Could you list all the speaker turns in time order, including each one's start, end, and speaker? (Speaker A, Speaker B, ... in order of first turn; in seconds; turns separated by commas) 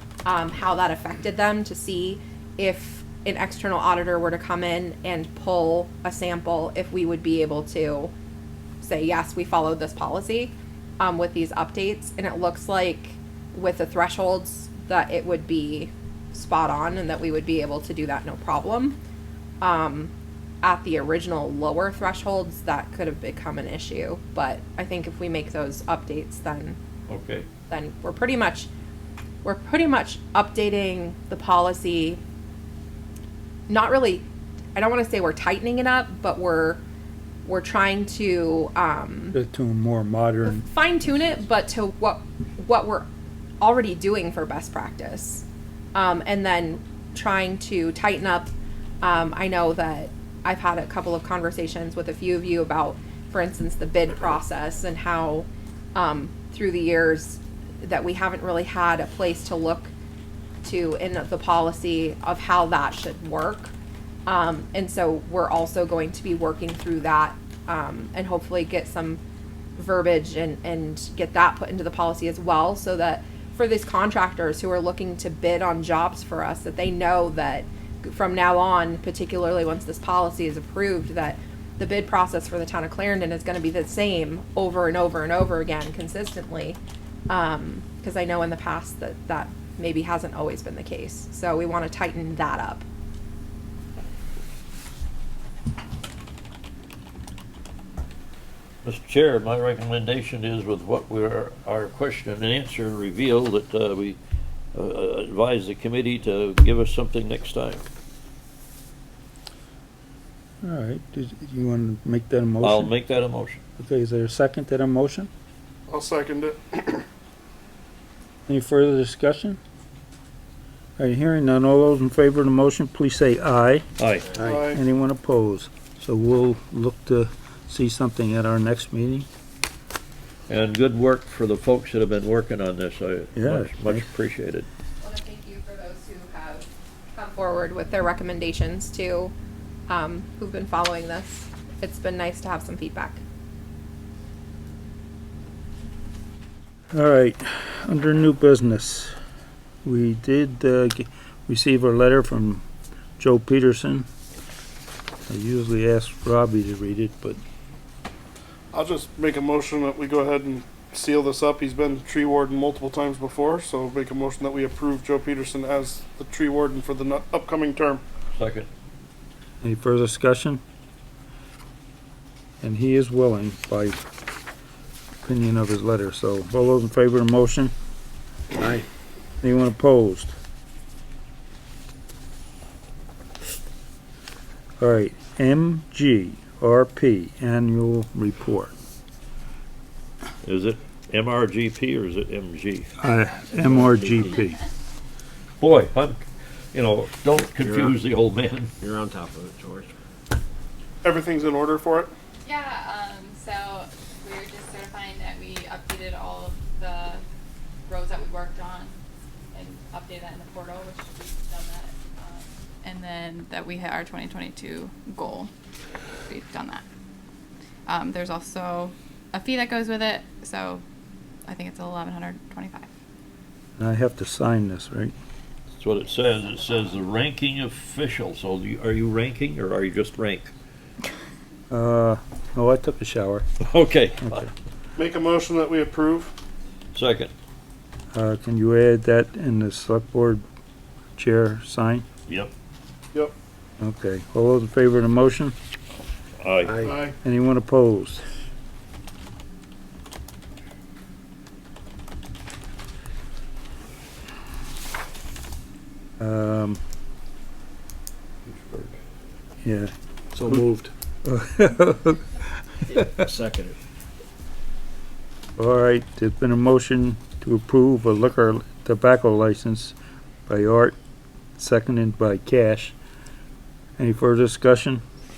Speaker A: 0.2-8.1, Speaker A: 8.8-19.0, Speaker A: 19.6-26.8, Speaker B: 27.1-27.5, Speaker A: 27.7-28.7, Speaker A: 29.4-32.2, Speaker A: 33.7-36.8, Speaker A: 37.5-39.4, Speaker C: 39.3-40.6, Speaker A: 40.4-43.1, Speaker A: 43.6-48.5, Speaker A: 49.0-59.9, Speaker A: 60.6-63.7, Speaker A: 64.3-69.2, Speaker A: 69.8-92.8, Speaker B: 98.8-104.2, Speaker B: 104.7-107.8, Speaker C: 110.6-112.9, Speaker B: 112.6-113.6, Speaker C: 113.8-115.3, Speaker D: 115.9-117.0, Speaker C: 118.5-119.6, Speaker C: 121.0-123.9, Speaker B: 124.0-124.4, Speaker C: 124.4-129.3, Speaker D: 124.4-124.8, Speaker B: 130.5-134.7, Speaker C: 133.4-134.0, Speaker A: 135.0-139.3, Speaker A: 139.9-143.2, Speaker C: 146.9-149.1, Speaker C: 149.8-152.6, Speaker C: 153.2-154.1, Speaker C: 155.3-157.4, Speaker D: 158.7-168.0, Speaker B: 168.3-168.7, Speaker C: 169.6-170.6, Speaker C: 172.6-174.1, Speaker C: 175.2-177.7, Speaker E: 178.6-178.8, Speaker C: 179.4-180.3, Speaker C: 184.8-188.7, Speaker B: 190.4-192.9, Speaker C: 193.0-194.6, Speaker E: 193.5-194.4, Speaker B: 195.6-196.2, Speaker B: 196.7-198.7, Speaker E: 197.6-198.0, Speaker E: 198.8-199.9, Speaker D: 201.0-202.1, Speaker F: 202.4-207.2, Speaker F: 207.9-208.9, Speaker F: 209.5-215.5, Speaker F: 216.3-216.8, Speaker F: 217.9-220.8, Speaker F: 221.5-222.9, Speaker C: 223.8-225.1, Speaker B: 225.8-230.5, Speaker C: 231.7-233.5, Speaker B: 233.6-234.5, Speaker D: 235.0-236.3, Speaker B: 236.9-237.3, Speaker C: 238.1-240.4, Speaker C: 241.2-242.1, Speaker B: 242.3-242.5, Speaker C: 243.8-245.6, Speaker B: 246.4-246.9, Speaker D: 246.8-247.2, Speaker C: 247.2-248.2, Speaker C: 256.2-256.8, Speaker B: 258.5-259.0, Speaker C: 259.6-259.9, Speaker E: 260.4-260.9, Speaker C: 261.2-262.3, Speaker E: 262.9-263.8, Speaker C: 265.6-269.9, Speaker C: 270.5-271.0, Speaker C: 271.6-272.9, Speaker C: 274.0-275.0